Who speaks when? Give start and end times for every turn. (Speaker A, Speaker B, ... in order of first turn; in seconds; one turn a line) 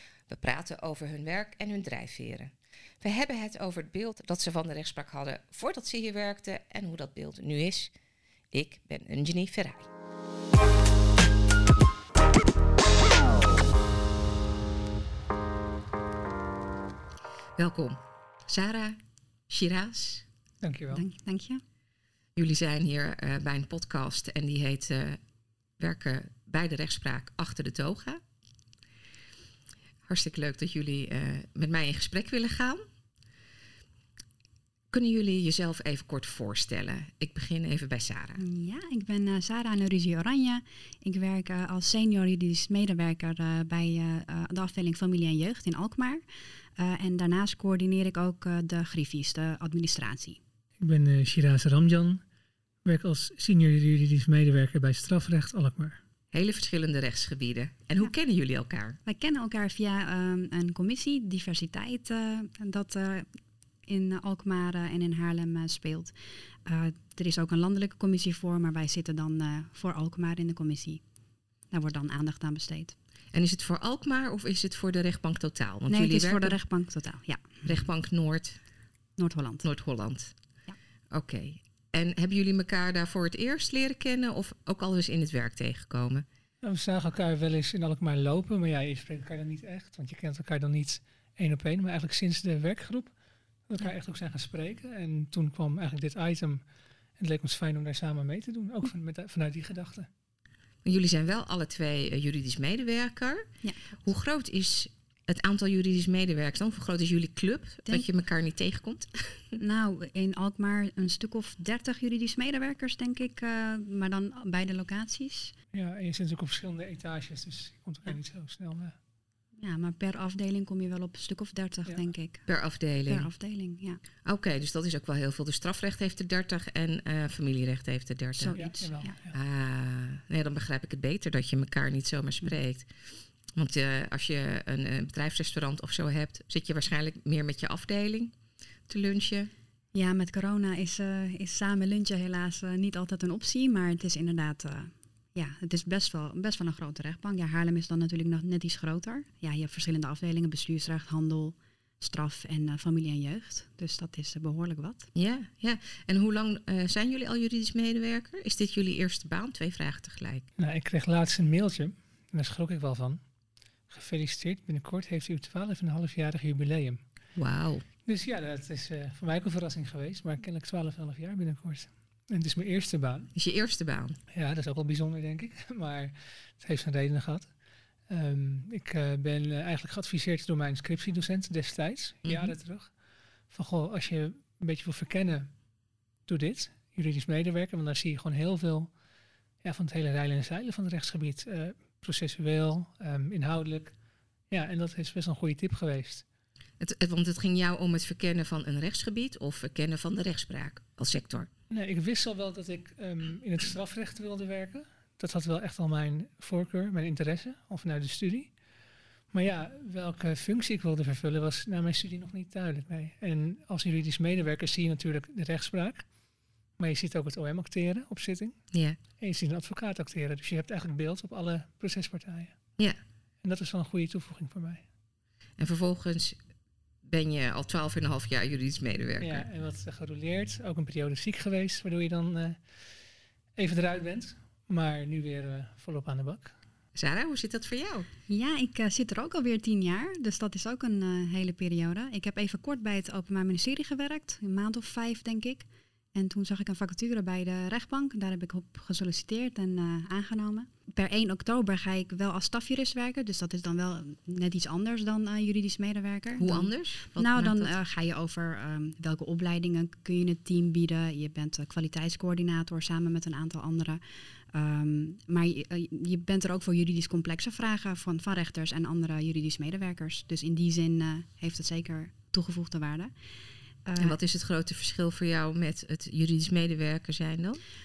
Speaker A: 0.3-7.9
Speaker A: 8.5-9.9
Speaker A: 17.6-20.3
Speaker B: 20.6-21.1
Speaker C: 20.9-21.6
Speaker A: 22.4-25.2
Speaker A: 25.8-28.2
Speaker A: 30.1-32.8
Speaker A: 34.9-38.4
Speaker C: 38.4-46.2
Speaker C: 46.8-50.4
Speaker B: 50.8-52.2
Speaker B: 52.9-56.0
Speaker A: 56.3-59.0
Speaker C: 59.1-63.3
Speaker C: 63.9-66.1
Speaker C: 66.7-71.0
Speaker C: 71.7-73.0
Speaker A: 73.3-76.6
Speaker C: 75.9-77.7
Speaker A: 77.6-78.6
Speaker C: 79.2-79.7
Speaker A: 79.6-80.3
Speaker A: 81.1-86.2
Speaker B: 86.6-93.1
Speaker B: 93.7-96.6
Speaker B: 97.2-100.1
Speaker A: 100.8-103.5
Speaker A: 104.0-109.6
Speaker C: 109.6-115.5
Speaker B: 115.7-119.0
Speaker C: 119.6-122.5
Speaker A: 122.5-123.3
Speaker C: 123.1-124.0
Speaker A: 124.2-128.6
Speaker C: 128.4-129.2
Speaker B: 128.5-129.4
Speaker A: 129.3-132.9
Speaker A: 133.5-138.3
Speaker A: 138.9-139.5
Speaker C: 139.9-155.1
Speaker A: 155.2-160.5
Speaker B: 160.6-163.2
Speaker B: 163.9-167.0
Speaker A: 167.4-167.9
Speaker B: 168.1-173.3
Speaker A: 173.3-174.2
Speaker B: 174.3-177.5
Speaker B: 178.1-182.9
Speaker A: 182.2-182.6
Speaker B: 183.5-185.5
Speaker B: 186.3-188.9
Speaker B: 189.6-193.9
Speaker B: 194.5-196.2
Speaker A: 196.8-201.5
Speaker B: 201.7-208.5
Speaker B: 209.3-216.1
Speaker B: 216.8-218.6
Speaker A: 218.7-219.0
Speaker B: 219.2-222.6
Speaker B: 223.4-224.8
Speaker A: 225.6-226.4
Speaker A: 227.1-229.5
Speaker B: 229.2-232.6
Speaker B: 233.6-236.5
Speaker A: 236.9-238.1
Speaker C: 238.3-264.0
Speaker A: 256.4-257.7
Speaker C: 264.5-273.1
Speaker C: 273.9-274.2
Speaker A: 274.0-277.6